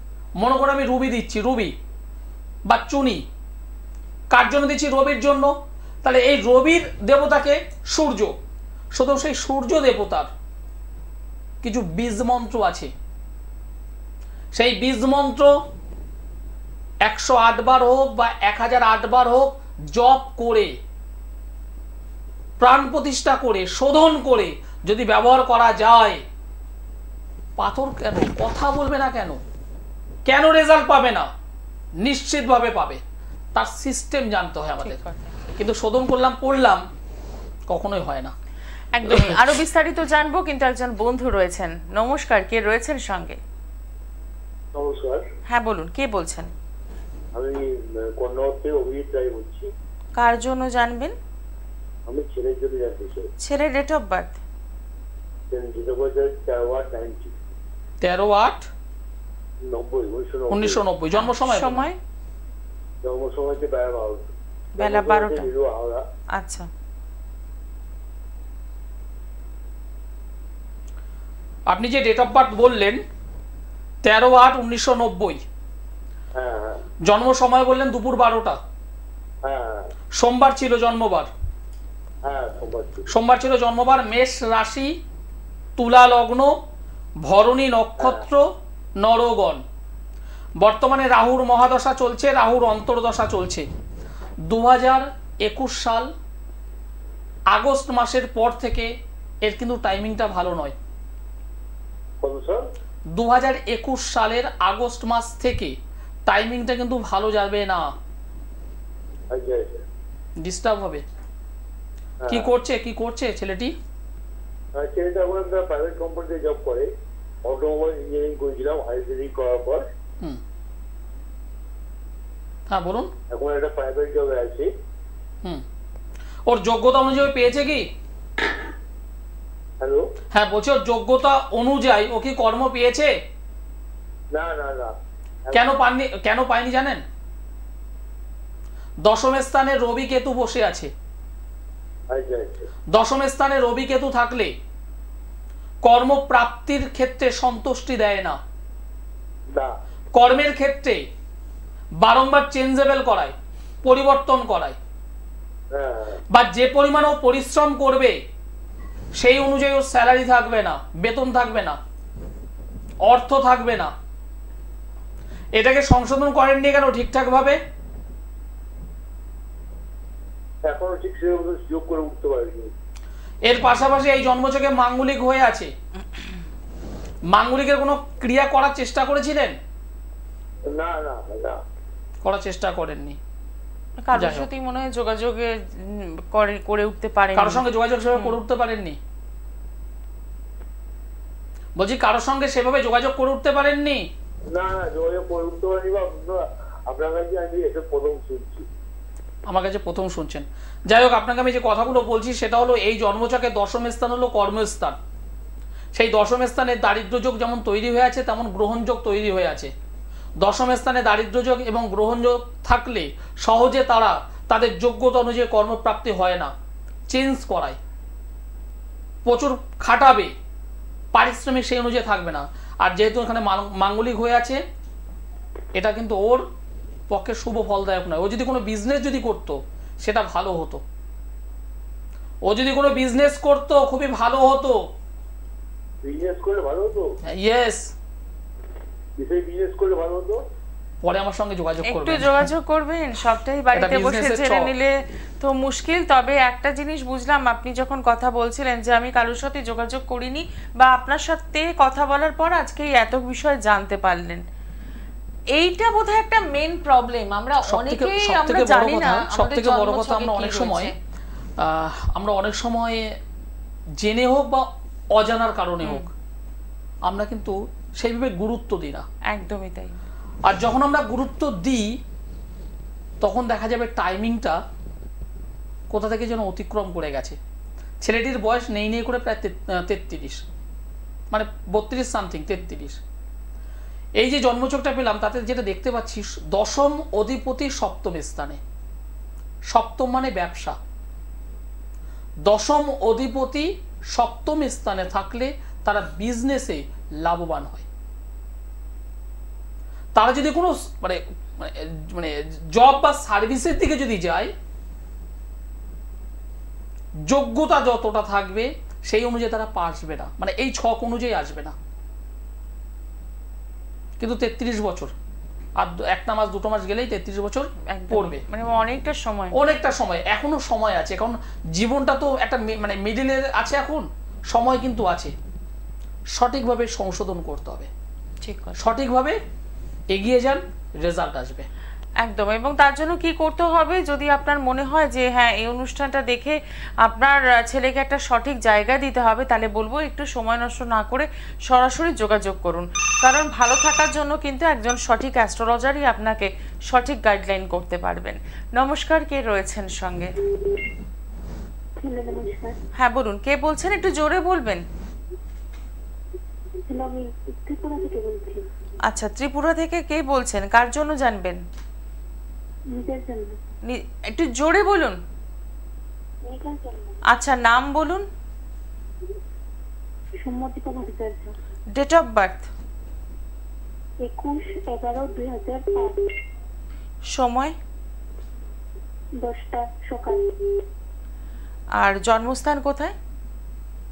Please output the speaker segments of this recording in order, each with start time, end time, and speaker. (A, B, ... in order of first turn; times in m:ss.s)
0:00.4-0:01.7 A
0:02.7-0:03.2 A
0:04.3-0:08.3 A
0:08.9-0:10.3 A
0:11.6-0:12.9 A
0:14.5-0:15.5 A
0:17.0-0:20.8 A
0:22.6-0:26.2 A
0:27.6-0:29.4 A
0:30.2-0:31.3 A
0:32.0-0:33.0 A
0:33.5-0:35.0 A
0:34.8-0:35.3 B
0:35.5-0:36.8 A
0:37.7-0:38.3 A
0:38.9-0:43.4 B
0:39.0-0:39.5 A
0:44.7-0:45.2 C
0:45.5-0:46.5 B
0:47.3-0:49.7 C
0:50.2-0:51.1 B
0:52.1-0:53.3 C
0:53.4-0:54.4 B
0:55.5-0:57.3 C
0:58.0-0:58.7 A
0:59.7-1:00.8 C
1:00.5-1:01.8 A
1:01.1-1:02.0 B
1:03.0-1:06.0 C
1:04.8-1:05.5 B
1:06.3-1:06.7 B
1:11.7-1:13.0 A
1:14.0-1:15.4 A
1:16.4-1:16.8 C
1:17.0-1:18.6 A
1:19.4-1:19.9 C
1:20.2-1:21.3 A
1:22.2-1:23.0 C
1:23.1-1:24.9 A
1:25.8-1:26.5 A
1:27.2-1:29.6 A
1:28.0-1:28.2 C
1:30.6-1:33.7 A
1:34.5-1:36.1 A
1:37.5-1:38.9 A
1:39.4-1:40.7 A
1:42.2-1:42.7 C
1:43.1-1:45.8 A
1:46.3-1:47.9 A
1:49.3-1:49.8 C
1:50.4-1:51.0 A
1:52.2-1:52.5 C
1:52.3-1:53.7 A
1:54.8-1:56.9 C
1:57.4-1:59.8 C
2:02.7-2:03.1 A
2:03.3-2:04.7 C
2:06.5-2:07.9 A
2:09.8-2:10.1 C
2:10.3-2:13.1 A
2:14.3-2:15.0 C
2:15.5-2:17.0 A
2:19.0-2:20.9 A
2:22.1-2:22.7 C
2:22.9-2:24.5 A
2:25.8-2:28.4 A
2:30.1-2:31.0 A
2:32.0-2:34.8 A
2:35.7-2:36.2 C
2:36.3-2:38.2 A
2:39.2-2:41.8 A
2:43.0-2:43.9 A
2:45.6-2:47.6 A
2:50.6-2:52.7 C
2:53.4-2:55.7 A
2:57.3-2:59.6 A
3:00.7-3:01.6 C
3:02.2-3:03.2 A
3:04.0-3:08.4 B
3:04.1-3:04.5 A
3:07.3-3:09.0 A
3:11.8-3:14.1 A
3:14.5-3:18.7 C
3:19.5-3:25.0 A
3:25.9-3:29.7 A
3:30.4-3:36.5 A
3:37.1-3:37.8 A
3:39.2-3:40.3 A
3:41.1-3:44.6 A
3:45.7-3:46.4 A
3:47.1-3:50.8 A
3:52.4-3:54.8 A
3:56.0-3:57.0 C
3:57.3-3:57.9 A
3:59.2-4:00.4 C
4:01.0-4:02.5 A
4:01.8-4:14.4 B
4:03.7-4:04.7 A
4:15.5-4:20.9 B
4:17.6-4:20.9 A
4:21.6-4:23.1 A
4:24.0-4:26.1 A
4:25.8-4:26.1 B
4:27.0-4:29.0 A
4:29.3-4:30.0 B
4:30.4-4:32.0 A
4:33.2-4:34.6 A
4:35.9-4:37.4 A
4:38.0-4:40.4 A
4:41.3-4:43.0 A
4:44.2-4:48.6 A
4:49.7-4:50.8 A
4:52.4-4:57.8 A
5:00.1-5:04.5 A
5:07.3-5:11.7 A
5:14.2-5:15.1 A
5:15.8-5:18.4 A
5:17.9-5:19.6 B
5:19.5-5:25.3 A
5:26.3-5:27.9 A
5:28.4-5:28.8 B
5:28.8-5:29.4 A
5:30.1-5:31.7 A
5:32.2-5:50.3 B
5:52.0-5:52.8 D
5:53.0-5:54.8 B
5:56.9-5:58.6 D
5:59.0-6:01.6 B
6:02.9-6:03.6 D
6:03.9-6:05.2 B
6:06.4-6:07.2 D
6:07.3-6:08.2 B
6:10.4-6:11.5 D
6:11.9-6:12.7 B
6:14.2-6:16.3 D
6:17.3-6:17.8 B
6:19.4-6:20.4 D
6:22.0-6:23.1 B